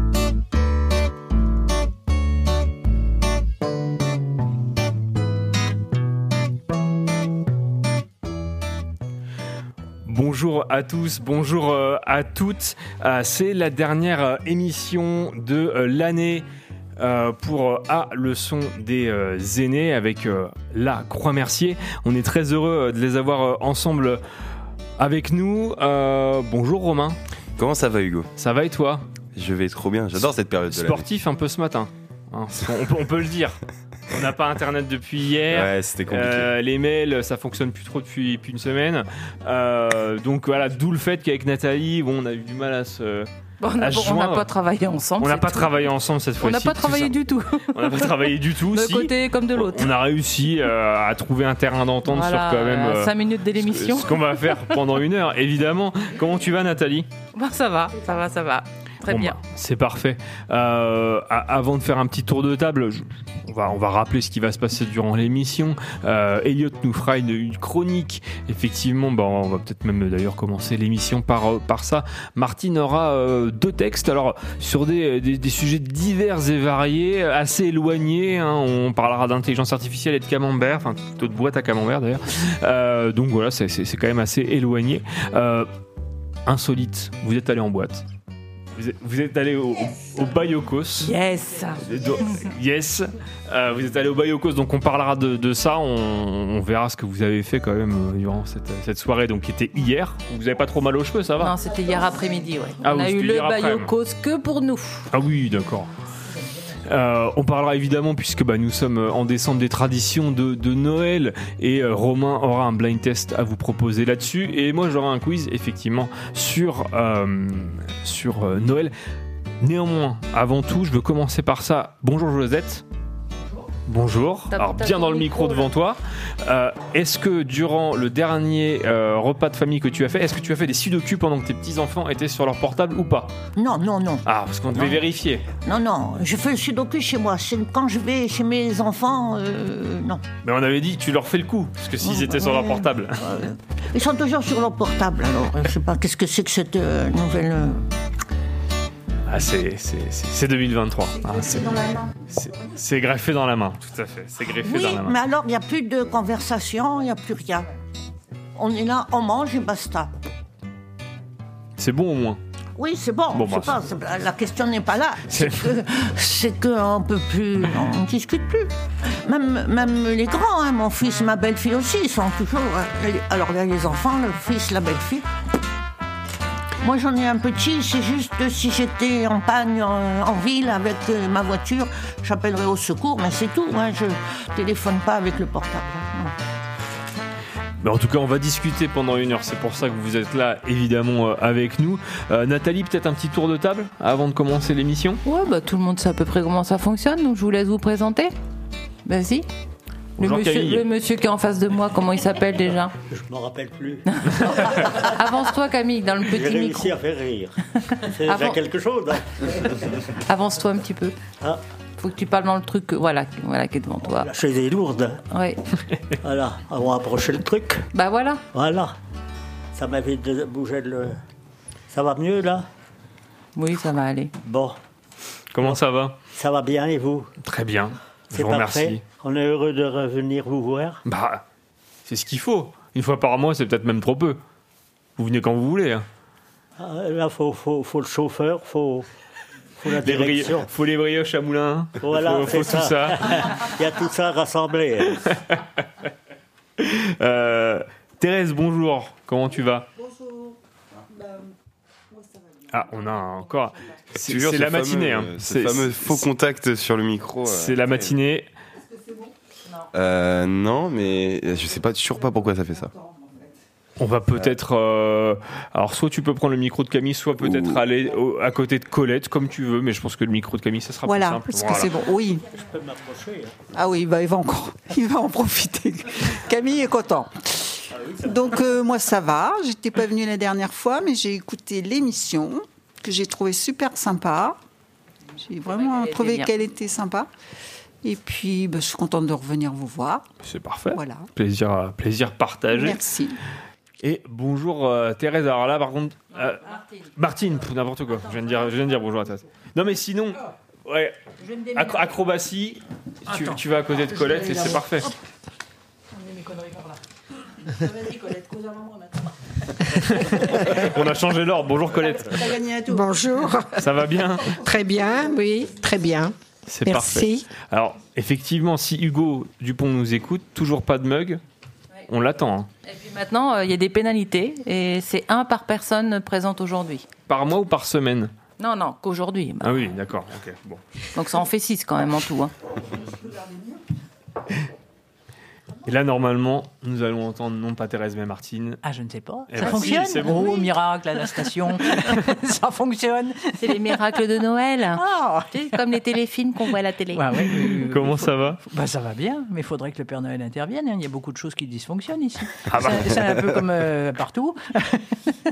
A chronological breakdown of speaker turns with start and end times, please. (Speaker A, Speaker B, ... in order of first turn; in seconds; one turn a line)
Speaker A: 10.1-16.4
Speaker A: 17.0-24.2
Speaker A: 25.0-27.2
Speaker B: 27.6-28.3
Speaker A: 28.4-29.1
Speaker B: 29.3-31.0
Speaker A: 30.2-44.5
Speaker B: 35.5-36.5
Speaker C: 43.6-45.8
Speaker A: 45.2-47.2
Speaker C: 46.4-49.9
Speaker A: 47.7-57.1
Speaker C: 52.1-54.2
Speaker C: 57.3-59.4
Speaker A: 59.0-85.7
Speaker A: 86.5-88.0
Speaker A: 88.7-91.1
Speaker C: 91.0-91.8
Speaker A: 91.8-101.5
Speaker C: 101.4-105.1
Speaker A: 102.8-103.9
Speaker A: 105.1-105.9
Speaker A: 106.8-118.9
Speaker A: 119.6-122.8
Speaker A: 123.8-133.3
Speaker C: 124.5-125.7
Speaker D: 133.6-135.0
Speaker A: 134.2-135.4
Speaker D: 135.6-140.2
Speaker A: 140.4-143.2
Speaker D: 142.0-147.8
Speaker A: 149.3-155.2
Speaker D: 154.6-157.7
Speaker D: 158.5-160.1
Speaker A: 161.8-162.4
Speaker D: 162.8-168.7
Speaker A: 163.3-163.8
Speaker A: 165.3-165.7
Speaker D: 169.2-175.3
Speaker D: 176.8-186.3
Speaker A: 187.8-195.2
Speaker C: 195.2-198.3
Speaker C: 199.0-199.5
Speaker C: 200.2-202.9
Speaker A: 200.2-200.8
Speaker E: 203.1-204.0
Speaker C: 204.1-206.9
Speaker E: 204.7-205.0
Speaker E: 206.3-210.1
Speaker C: 207.9-208.6
Speaker C: 210.2-211.2
Speaker C: 212.0-214.3
Speaker E: 214.2-215.2
Speaker C: 215.3-215.6
Speaker E: 216.2-217.8
Speaker C: 217.9-218.4
Speaker E: 218.5-218.9
Speaker E: 219.7-221.2
Speaker E: 221.9-222.7
Speaker C: 223.6-224.3
Speaker E: 224.4-224.8
Speaker A: 225.5-226.2
Speaker E: 226.3-227.3
Speaker A: 227.4-229.0
Speaker E: 228.3-231.0
Speaker A: 231.0-231.4
Speaker A: 232.1-234.4
Speaker A: 235.2-236.1
Speaker E: 236.8-239.1
Speaker E: 239.8-240.7
Speaker A: 240.0-243.5
Speaker E: 242.0-245.2
Speaker A: 245.3-245.6
Speaker A: 246.8-249.9
Speaker A: 252.7-256.3
Speaker B: 254.1-258.1
Speaker A: 257.4-258.5
Speaker B: 259.9-262.9
Speaker A: 264.0-271.9
Speaker B: 267.4-267.8
Speaker F: 271.1-272.4
Speaker E: 272.5-273.6
Speaker F: 273.7-284.6
Speaker F: 285.4-287.3
Speaker C: 285.6-286.5
Speaker F: 288.0-290.2
Speaker A: 290.4-293.0
Speaker F: 290.9-291.2
Speaker F: 292.7-293.4
Speaker A: 294.0-301.2
Speaker G: 301.4-301.9
Speaker A: 301.7-305.1
Speaker G: 303.3-304.8
Speaker G: 306.1-307.0
Speaker G: 307.7-309.2
Speaker A: 310.0-312.6
Speaker G: 310.2-310.7
Speaker G: 312.2-313.0
Speaker H: 312.8-317.5
Speaker A: 313.8-314.6
Speaker A: 316.7-321.4
Speaker A: 322.1-322.7
Speaker C: 322.8-327.1
Speaker A: 327.3-328.3
Speaker C: 328.6-329.8
Speaker A: 329.6-330.8
Speaker C: 331.1-332.5
Speaker A: 335.8-338.8
Speaker G: 338.8-344.0
Speaker A: 339.5-340.7
Speaker C: 339.6-340.4
Speaker C: 343.6-347.8
Speaker G: 344.9-345.6
Speaker G: 347.1-355.2
Speaker A: 347.9-348.6
Speaker A: 352.7-353.6